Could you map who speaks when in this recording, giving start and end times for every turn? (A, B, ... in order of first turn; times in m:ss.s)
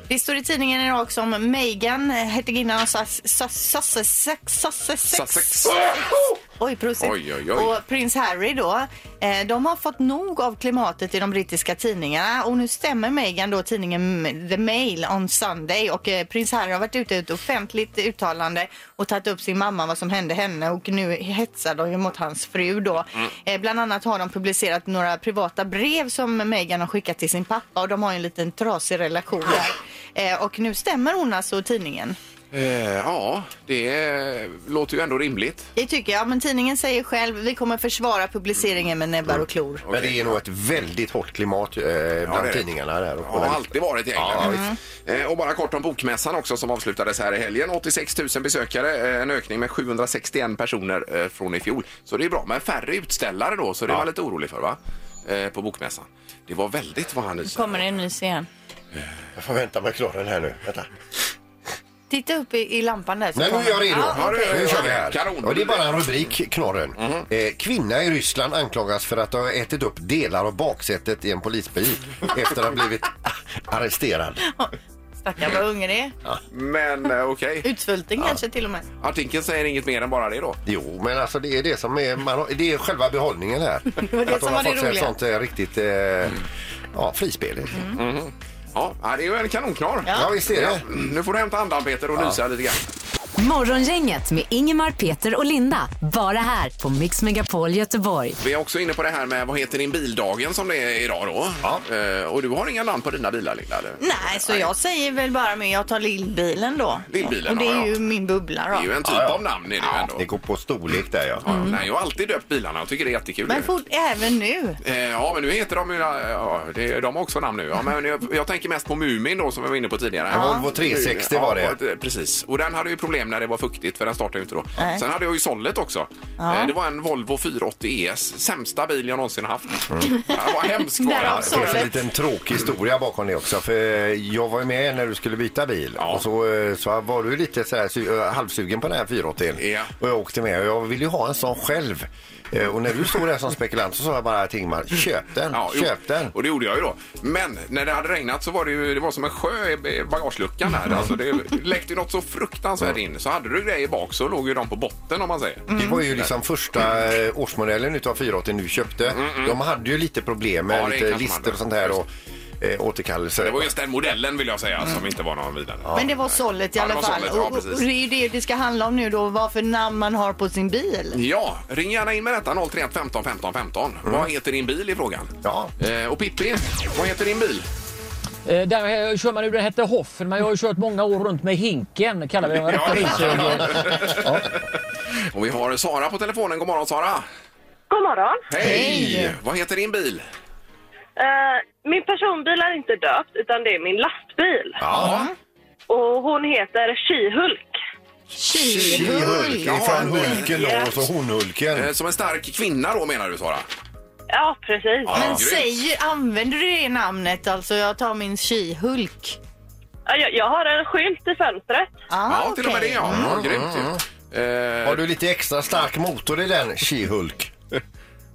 0:00.1-0:32.2 A
0:05.1-0:05.9 B
0:07.0-0:07.8 B
0:32.5-0:35.7 B
0:35.8-0:39.8 A
0:39.8-0:40.4 B
0:39.9-0:44.6 C
0:42.2-0:42.6 B
0:43.2-0:57.8 B
0:44.4-0:44.7 A
0:57.5-0:58.5 A
0:59.3-1:00.9 C
1:02.1-1:04.9 A
1:03.3-1:14.4 C
1:04.1-1:06.3 B
1:07.0-1:07.2 B
1:14.5-1:16.1 A
1:16.5-1:17.7 B
1:17.6-1:18.8 A
1:19.0-1:20.6 B
1:20.6-1:26.4 C
1:23.9-1:25.1 A
1:26.9-1:27.9 C
1:27.9-1:32.8 B
1:30.1-1:30.8 C
1:33.4-1:38.4 D
1:38.4-1:44.7 B
1:44.0-1:48.9 A
1:47.1-1:47.9 B
1:48.7-1:50.2 B
1:49.0-1:51.7 C
1:51.4-1:53.7 B
1:51.5-1:51.8 A
1:53.5-1:54.8 A
1:54.8-2:11.9 B
2:00.3-2:01.8 C
2:00.3-2:00.7 A
2:06.4-2:06.7 A
2:09.9-2:10.2 C
2:11.0-2:11.9 A
2:11.2-2:26.3 C
2:16.0-2:16.2 B
2:19.6-2:19.9 B
2:25.5-2:36.3 B
2:35.7-2:36.0 A
2:35.7-2:42.1 C
2:39.1-2:39.6 B
2:40.7-2:42.0 B
2:42.6-2:43.7 C
2:43.4-2:47.8 B
2:45.8-2:46.1 C
2:45.9-2:51.2 A
2:51.1-2:57.7 B
2:55.4-2:55.7 C
2:58.4-3:04.4 E
3:02.6-3:04.6 B
3:02.9-3:04.1 C
3:05.3-3:07.2 B
3:07.9-3:08.4 F
3:08.5-3:10.2 B
3:08.6-3:09.3 C
3:08.6-3:09.3 A
3:11.2-3:14.8 F
3:14.8-3:15.2 C
3:14.9-3:15.3 A
3:14.9-3:15.3 B
3:15.9-3:17.7 F
3:18.3-3:20.4 A
3:18.6-3:21.9 C
3:18.6-3:20.6 B
3:20.6-3:20.9 F
3:21.7-3:23.6 B
3:24.3-3:25.2 F
3:25.0-3:25.8 B
3:25.1-3:29.4 A
3:30.1-3:31.9 F
3:32.1-3:33.3 A
3:32.3-3:35.0 B
3:33.0-3:34.0 C
3:34.8-3:37.5 C